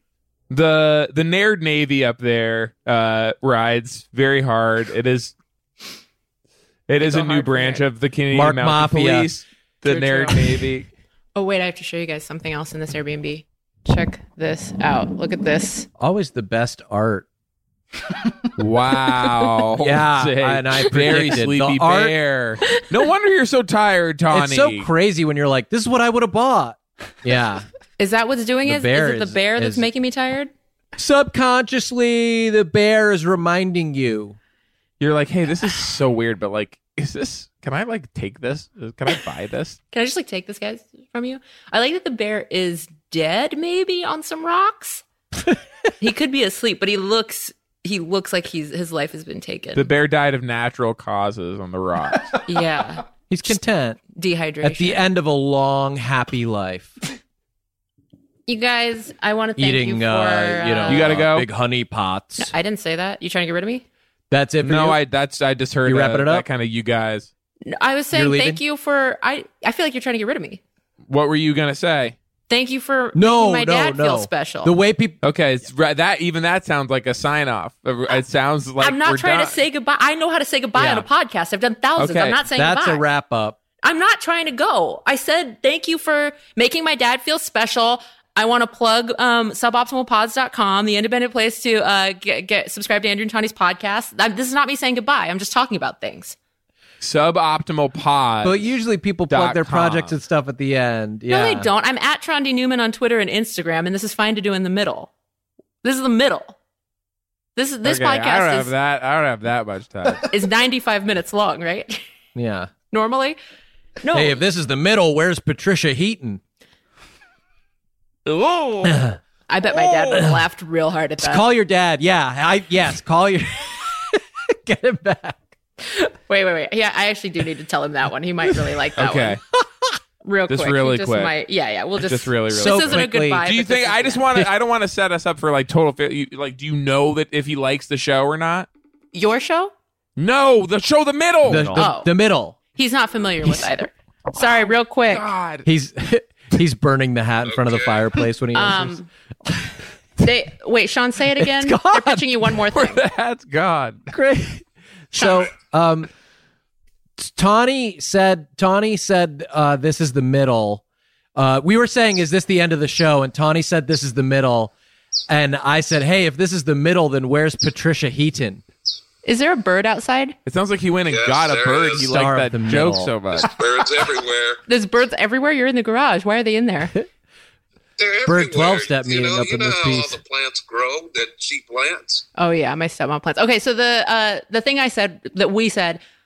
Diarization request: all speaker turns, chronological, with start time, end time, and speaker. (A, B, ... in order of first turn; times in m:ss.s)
0:00.5-0:05.4 A
0:06.9-0:10.9 A
0:07.0-0:07.8 B
0:08.3-0:09.3 C
0:09.8-0:10.6 B
0:11.4-0:15.9 B
0:16.0-0:17.3 C
0:18.6-0:24.9 A
0:19.8-0:22.2 C
0:24.3-0:27.7 C
0:28.0-0:30.5 B
0:28.6-0:29.9 C
0:31.0-0:34.4 C
0:35.0-0:39.8 A
0:39.9-0:45.0 B
0:46.0-0:49.9 B
0:49.8-0:52.4 A
0:52.4-0:53.1 B
0:53.3-0:54.0 C
0:54.1-0:55.0 B
0:54.6-0:57.0 C
0:58.5-1:01.2 B
0:59.6-1:02.5 C
1:00.9-1:01.5 A
1:02.4-1:03.8 B
1:04.3-1:05.0 C
1:04.6-1:07.3 A
1:05.8-1:06.5 C
1:07.7-1:10.6 B
1:08.1-1:08.6 C
1:11.1-1:12.2 A
1:12.5-1:14.8 B
1:13.2-1:15.2 C
1:15.2-1:19.6 A
1:18.8-1:23.0 B
1:20.8-1:21.1 C
1:22.0-1:22.4 A
1:22.5-1:23.6 C
1:23.8-1:36.4 B
1:37.0-1:38.7 A
1:38.4-1:41.7 C
1:39.3-1:40.2 A
1:41.3-1:45.1 B
1:45.8-1:46.6 B
1:47.6-1:48.7 B
1:47.8-1:50.3 A
1:50.2-1:52.0 B
1:52.4-1:52.7 C
1:52.9-1:53.4 B
1:54.0-1:54.4 B
1:54.1-1:56.4 C
1:58.3-1:59.1 A
1:58.8-1:59.2 C
1:59.5-2:01.5 B
1:59.8-2:00.2 A
2:00.1-2:00.4 C
2:01.2-2:05.5 C
2:05.8-2:09.4 B
2:09.0-2:09.4 A
2:10.2-2:14.2 B
2:10.5-2:11.3 A
2:12.0-2:18.7 A
2:12.5-2:13.4 C
2:19.1-2:19.7 B
2:20.2-2:21.8 A
2:21.4-2:22.6 C
2:21.7-2:22.1 B
2:22.7-2:25.3 B
2:25.1-2:25.7 A
2:25.6-2:29.0 C
2:27.5-2:28.2 D
2:28.5-2:29.1 B
2:30.2-2:33.0 B
2:31.4-2:32.3 C
2:32.7-2:34.2 A
2:34.1-2:36.1 C
2:35.1-2:35.5 B
2:37.2-2:40.8 C
2:41.4-2:44.7 C
2:45.3-2:48.6 C
2:49.2-2:50.4 B
2:50.5-2:53.5 A
2:51.1-2:52.1 D
2:52.1-2:53.2 C
2:53.5-2:54.6 D
2:54.7-2:57.0 B
2:58.0-3:02.2 D
2:58.2-3:00.2 C
3:02.4-3:06.0 B